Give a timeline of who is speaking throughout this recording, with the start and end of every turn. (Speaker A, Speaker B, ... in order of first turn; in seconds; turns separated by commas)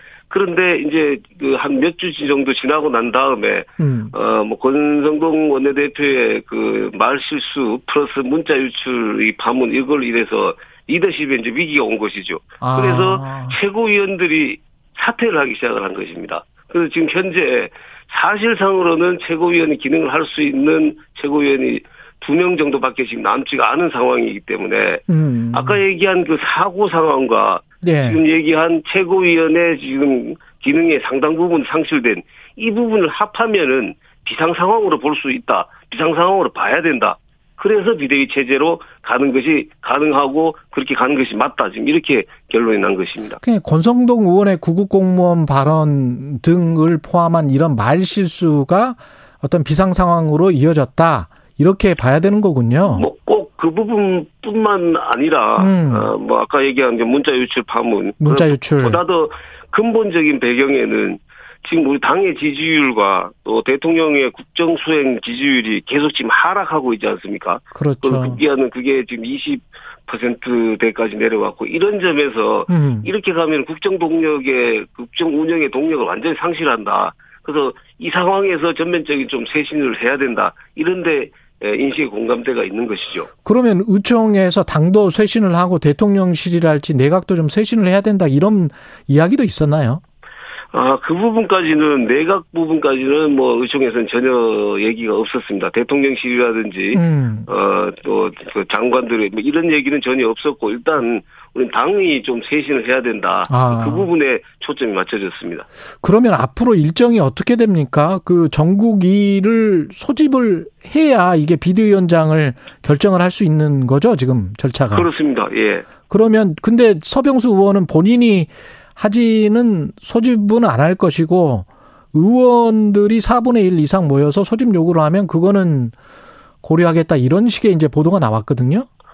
Speaker A: 0.3-43.4, Speaker B: 3.8-4.1, Speaker B: 12.6-13.6, Speaker B: 25.1-25.8, Speaker B: 27.8-28.2, Speaker B: 43.4-53.1, Speaker A: 52.8-83.3, Speaker B: 55.6-56.1, Speaker B: 58.2-59.0, Speaker B: 67.7-68.4, Speaker B: 72.7-73.1, Speaker B: 83.4-90.0, Speaker A: 90.7-105.7, Speaker B: 96.9-97.5, Speaker B: 103.5-104.1, Speaker B: 106.0-115.1, Speaker A: 114.9-115.9, Speaker B: 116.1-125.9, Speaker B: 126.6-128.9